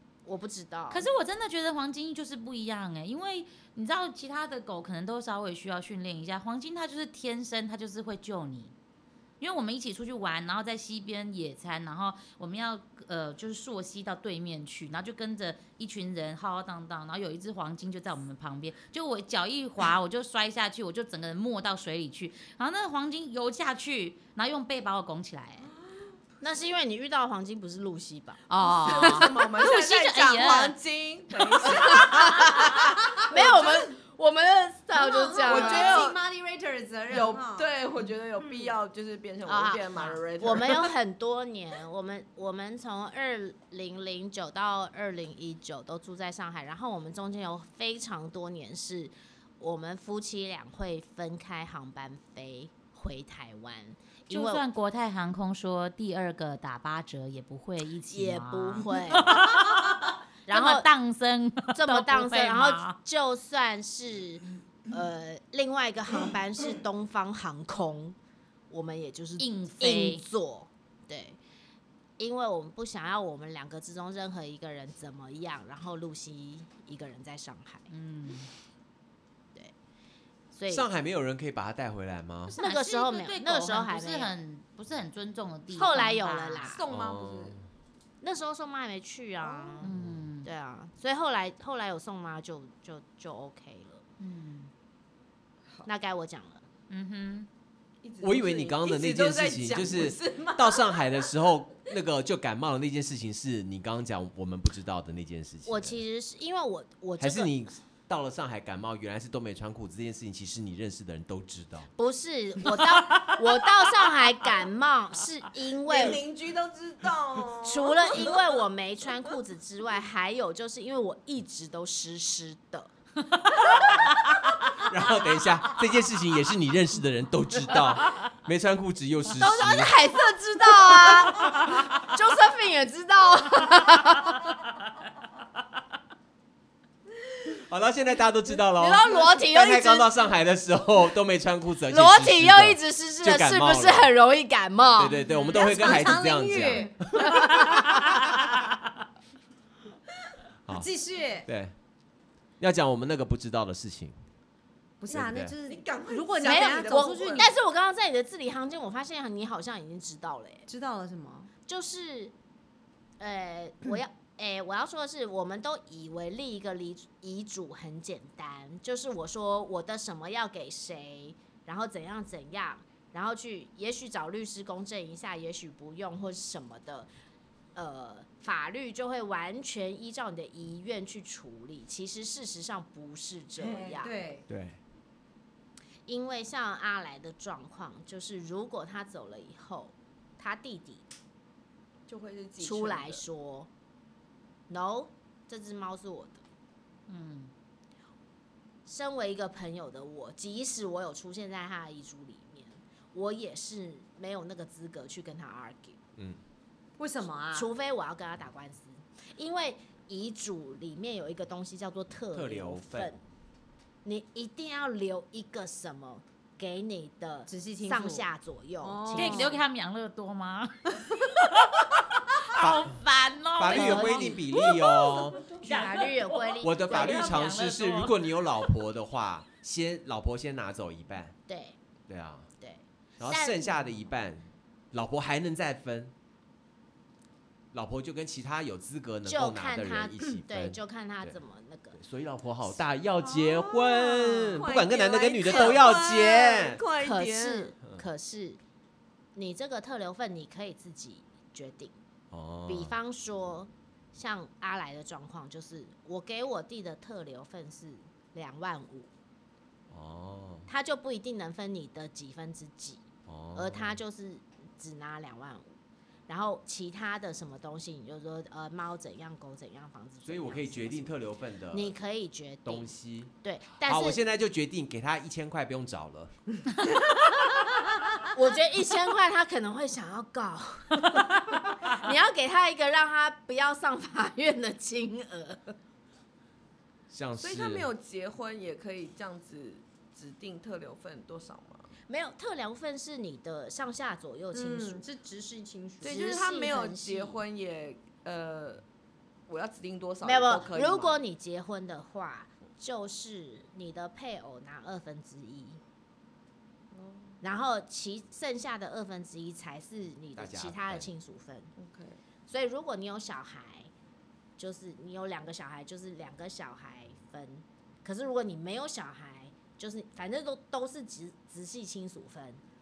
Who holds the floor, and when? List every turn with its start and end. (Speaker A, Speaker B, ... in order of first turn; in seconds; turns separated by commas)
Speaker A: 0.2-1.0, Speaker B: 0.9-8.7, Speaker B: 9.4-25.7, Speaker C: 25.7-26.1, Speaker A: 26.4-28.4, Speaker B: 28.5-30.8, Speaker C: 28.6-33.9, Speaker A: 31.9-36.0, Speaker D: 34.9-37.7, Speaker C: 35.4-36.2, Speaker C: 37.1-40.9, Speaker A: 39.5-54.6, Speaker B: 54.3-63.0, Speaker A: 58.1-59.4, Speaker A: 60.5-60.9, Speaker A: 61.7-68.2, Speaker A: 68.7-71.4, Speaker B: 69.4-70.2, Speaker A: 72.2-77.9, Speaker B: 77.9-78.5, Speaker A: 80.5-80.9, Speaker E: 80.7-82.5, Speaker B: 82.5-86.7, Speaker A: 82.6-84.3, Speaker A: 85.7-86.8, Speaker C: 86.6-87.6, Speaker E: 86.9-87.6, Speaker A: 88.2-89.9, Speaker C: 89.4-89.8, Speaker B: 89.8-90.5, Speaker E: 89.8-90.3, Speaker A: 90.4-94.0, Speaker B: 94.2-94.7, Speaker A: 95.8-96.6, Speaker B: 96.9-97.5, Speaker C: 98.0-101.1, Speaker E: 98.2-106.0, Speaker A: 105.7-107.5, Speaker E: 107.2-111.9, Speaker A: 112.0-116.2, Speaker C: 115.8-118.6, Speaker A: 117.6-122.9, Speaker E: 124.8-129.9, Speaker A: 129.3-134.4, Speaker C: 130.9-131.6, Speaker E: 137.5-144.1, Speaker A: 138.7-140.1, Speaker A: 141.9-145.2, Speaker E: 145.0-148.1, Speaker B: 145.2-145.7, Speaker D: 145.4-147.1, Speaker D: 150.7-151.5, Speaker E: 151.4-151.7, Speaker E: 152.6-154.2, Speaker D: 155.0-157.5, Speaker E: 155.1-155.5, Speaker C: 155.6-157.5, Speaker A: 156.4-160.7, Speaker D: 160.7-161.5, Speaker A: 161.7-162.3, Speaker A: 163.2-177.1, Speaker A: 177.7-184.1, Speaker D: 183.6-184.4, Speaker E: 184.5-184.8, Speaker A: 186.1-191.0, Speaker C: 192.1-193.2, Speaker A: 192.6-193.7, Speaker A: 194.7-196.4, Speaker B: 197.1-197.5, Speaker A: 198.8-206.0, Speaker D: 207.0-207.7, Speaker A: 207.5-213.2, Speaker E: 212.3-213.1, Speaker A: 214.0-219.6, Speaker D: 217.5-218.3, Speaker D: 218.8-219.6, Speaker B: 219.1-228.2, Speaker E: 222.5-223.0, Speaker E: 223.6-225.5, Speaker A: 223.7-224.5, Speaker A: 225.5-227.5, Speaker E: 226.6-231.3, Speaker A: 231.5-231.8, Speaker E: 232.1-232.5, Speaker A: 232.6-234.0, Speaker E: 233.2-236.1, Speaker E: 237.7-241.4, Speaker A: 239.2-242.0, Speaker E: 241.9-246.8, Speaker C: 243.3-247.7, Speaker A: 245.4-245.8, Speaker A: 247.0-248.6, Speaker A: 249.3-252.0, Speaker E: 252.3-252.9, Speaker A: 252.7-259.1, Speaker E: 259.9-260.7, Speaker A: 260.7-263.0, Speaker E: 263.3-264.0, Speaker A: 263.5-265.8, Speaker A: 266.3-271.2, Speaker E: 270.2-271.9, Speaker A: 271.7-274.2, Speaker E: 272.6-276.4, Speaker A: 278.2-285.8, Speaker E: 287.1-287.9, Speaker C: 287.4-291.9, Speaker A: 292.1-295.0, Speaker D: 294.5-296.3, Speaker C: 296.0-298.8, Speaker A: 296.0-297.4, Speaker C: 299.5-301.2, Speaker A: 300.2-305.8, Speaker C: 306.9-307.4, Speaker A: 307.4-311.7, Speaker E: 310.4-311.1, Speaker C: 311.8-312.2, Speaker A: 312.5-313.9, Speaker A: 314.6-322.6